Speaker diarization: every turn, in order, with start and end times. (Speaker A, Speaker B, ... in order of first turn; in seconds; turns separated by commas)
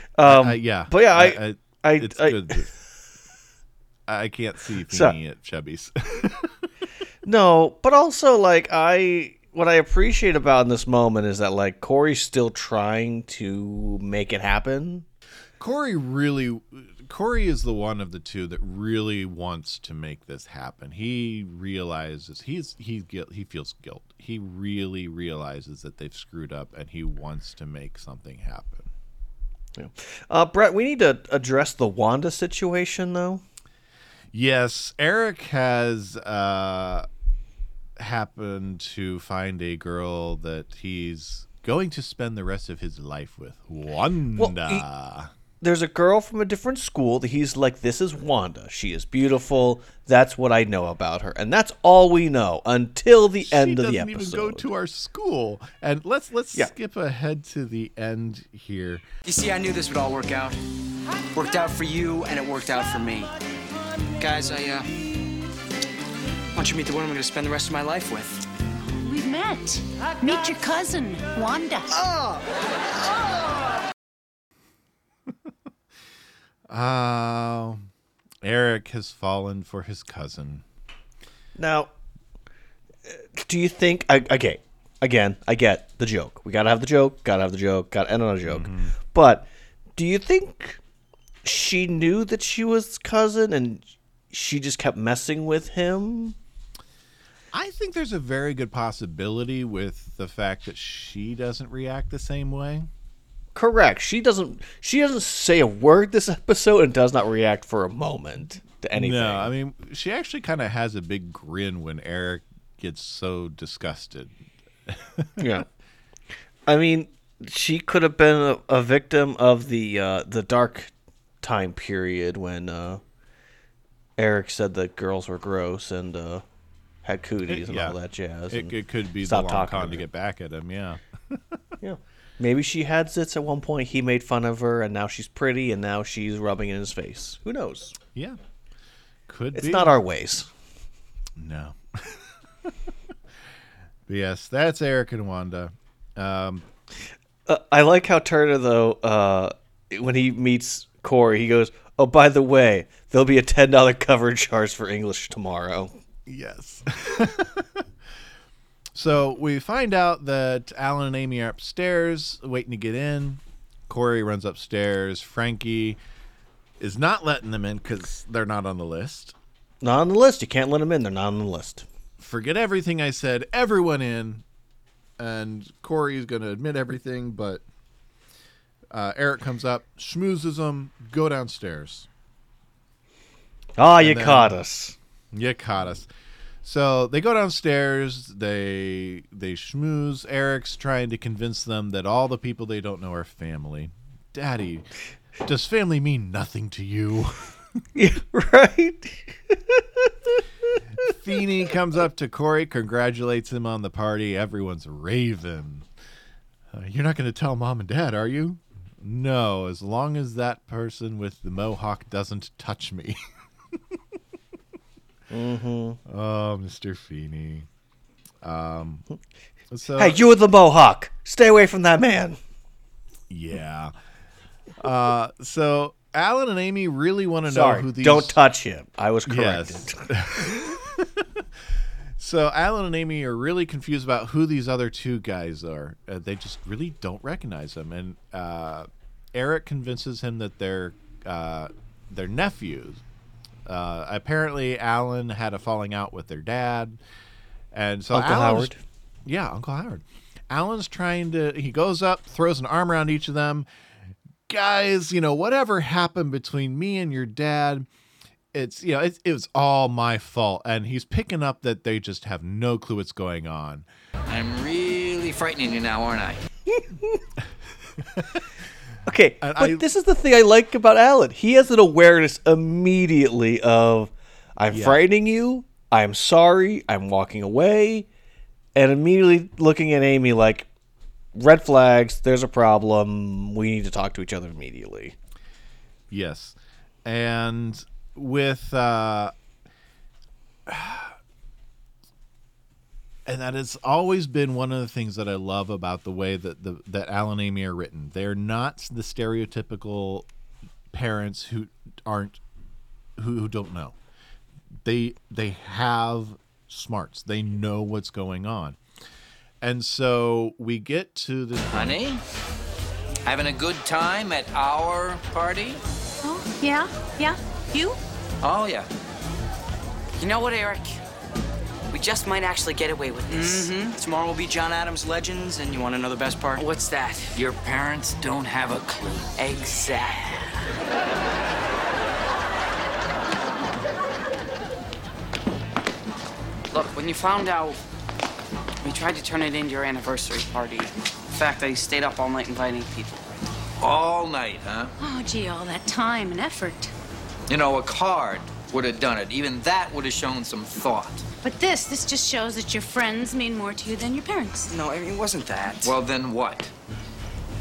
Speaker A: 0.1-2.6, Speaker B: 0.2-2.7, Speaker B: 4.1-6.5, Speaker A: 4.9-5.2, Speaker A: 7.2-15.1, Speaker B: 15.6-28.9, Speaker A: 29.8-33.4, Speaker B: 34.3-37.1, Speaker B: 38.0-45.3, Speaker A: 44.4-44.8, Speaker A: 45.6-54.7, Speaker B: 53.4-59.0, Speaker C: 59.2-60.6, Speaker C: 61.3-63.3, Speaker C: 64.2-64.9, Speaker C: 66.5-68.4, Speaker D: 68.9-72.0, Speaker A: 71.9-72.4, Speaker B: 76.7-77.8, Speaker B: 78.4-80.6, Speaker A: 81.5-81.9, Speaker A: 83.1-90.8, Speaker B: 88.5-88.9, Speaker A: 91.4-96.3, Speaker B: 97.5-102.9, Speaker A: 103.5-109.5, Speaker B: 108.9-114.3, Speaker B: 114.9-115.4, Speaker A: 115.4-115.7, Speaker A: 116.7-123.0, Speaker A: 124.2-126.4, Speaker A: 127.0-130.0, Speaker B: 127.5-128.0, Speaker B: 128.5-131.6, Speaker A: 131.8-137.9, Speaker B: 139.3-139.9, Speaker A: 139.5-140.5, Speaker B: 141.4-142.7, Speaker B: 144.1-146.6, Speaker A: 147.5-155.9, Speaker B: 156.3-157.8, Speaker B: 158.9-166.0, Speaker B: 166.8-169.3, Speaker A: 169.8-171.8, Speaker B: 172.2-174.4, Speaker B: 175.2-177.6, Speaker B: 178.9-182.1, Speaker A: 183.8-184.9, Speaker B: 184.0-184.6, Speaker B: 185.3-186.1, Speaker B: 186.6-194.9, Speaker B: 195.4-197.5, Speaker A: 197.9-200.1, Speaker B: 201.0-205.9, Speaker B: 206.7-213.2, Speaker A: 215.3-216.0, Speaker B: 216.1-217.7, Speaker B: 218.4-219.1, Speaker B: 219.7-220.2, Speaker A: 220.0-222.4, Speaker B: 223.3-223.9, Speaker B: 224.8-228.4, Speaker A: 227.5-230.4, Speaker B: 229.2-231.6, Speaker B: 232.2-243.0, Speaker B: 243.7-247.0, Speaker B: 247.7-248.7, Speaker A: 248.1-248.8, Speaker B: 249.2-253.7, Speaker B: 254.5-257.9, Speaker B: 258.5-263.9, Speaker E: 264.3-266.4, Speaker A: 266.7-267.2, Speaker B: 268.1-268.4, Speaker A: 269.1-278.1, Speaker B: 269.4-269.9, Speaker B: 274.7-275.0, Speaker A: 278.7-280.7, Speaker A: 281.3-285.1, Speaker B: 286.1-289.3, Speaker B: 290.7-291.1, Speaker B: 293.2-300.3, Speaker B: 300.9-302.4, Speaker B: 303.2-303.9, Speaker B: 304.8-308.8, Speaker B: 309.6-312.0, Speaker E: 311.7-312.2, Speaker E: 313.2-315.8, Speaker D: 316.2-318.0, Speaker E: 318.4-318.9, Speaker F: 320.2-321.0, Speaker F: 321.9-323.8, Speaker C: 323.3-326.6, Speaker F: 326.6-327.3, Speaker E: 327.3-329.0, Speaker F: 329.4-330.2, Speaker F: 336.7-337.8, Speaker F: 338.8-343.2, Speaker E: 343.8-344.9, Speaker D: 345.0-346.9, Speaker E: 347.5-351.2, Speaker D: 351.4-354.7, Speaker C: 354.7-355.9, Speaker E: 355.8-356.7